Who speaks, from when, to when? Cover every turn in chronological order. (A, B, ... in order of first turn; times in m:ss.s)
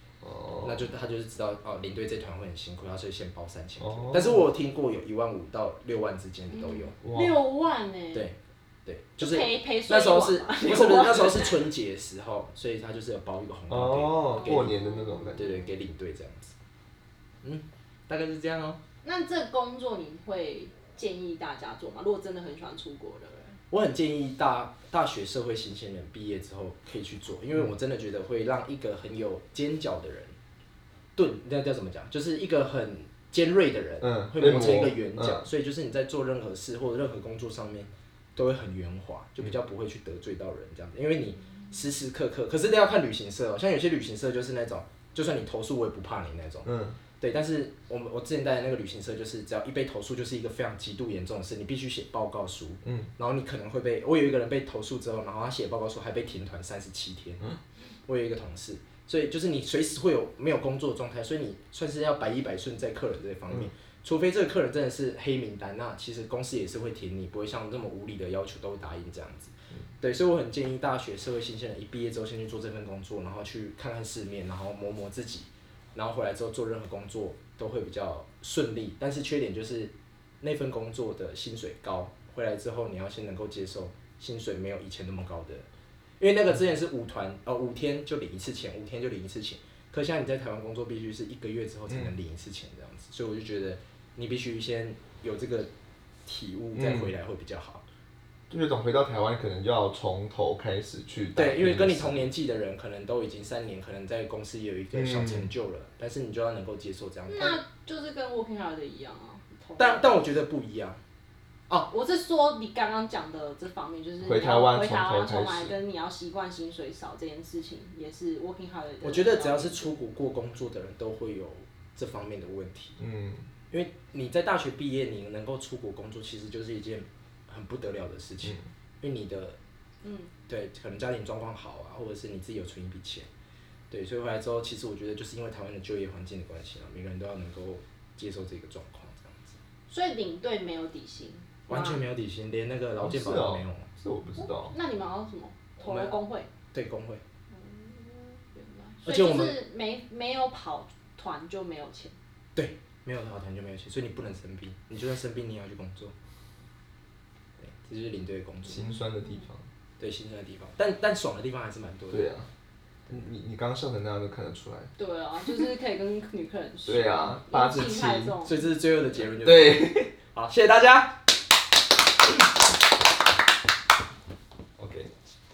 0:00.2-0:00.8 A
0:00.6-0:06.9 B
0:03.8-0:04.5 A
0:06.5-0:08.3 C
0:07.0-0:07.4 A
0:08.1-0:14.7 B
0:09.2-0:11.6 C
0:13.7-0:15.4 A
0:14.4-0:15.6 C
0:15.4-0:16.5 B
0:17.4-0:18.8 B
0:19.0-0:23.6 C
0:23.7-0:30.3 B
0:31.2-0:46.7 B
0:34.0-0:35.4 A
0:46.6-0:47.0 A
0:47.2-0:57.4 B
0:58.1-1:25.6 B
1:26.2-1:35.7 B
1:36.2-1:37.8 B
1:36.8-1:37.1 A
1:38.5-1:42.3 A
1:41.3-1:47.6 B
1:44.9-1:45.5 A
1:47.3-1:50.0 C
1:49.8-1:51.0 B
1:51.7-1:59.9 C
1:54.2-1:55.7 A
1:59.0-2:03.0 B
2:03.0-2:03.5 A
2:03.7-2:09.6 B
2:10.0-2:10.3 C
2:10.5-2:13.3 B
2:13.9-2:19.6 B
2:19.9-2:22.0 C
2:21.7-2:23.9 B
2:23.0-2:24.7 A
2:24.4-2:26.5 C
2:25.8-2:26.2 B
2:26.7-2:27.2 B
2:27.5-2:32.1 C
2:29.0-2:29.6 B
2:32.5-2:36.1 B
2:37.6-2:38.9 B
2:38.7-2:39.6 A
2:40.0-2:42.2 B
2:42.1-2:42.5 A
2:43.1-2:44.9 A
2:45.0-2:48.6 C
2:46.8-2:48.4 A
2:48.4-2:51.1 B
2:49.4-2:50.1 A
2:54.8-2:55.1 A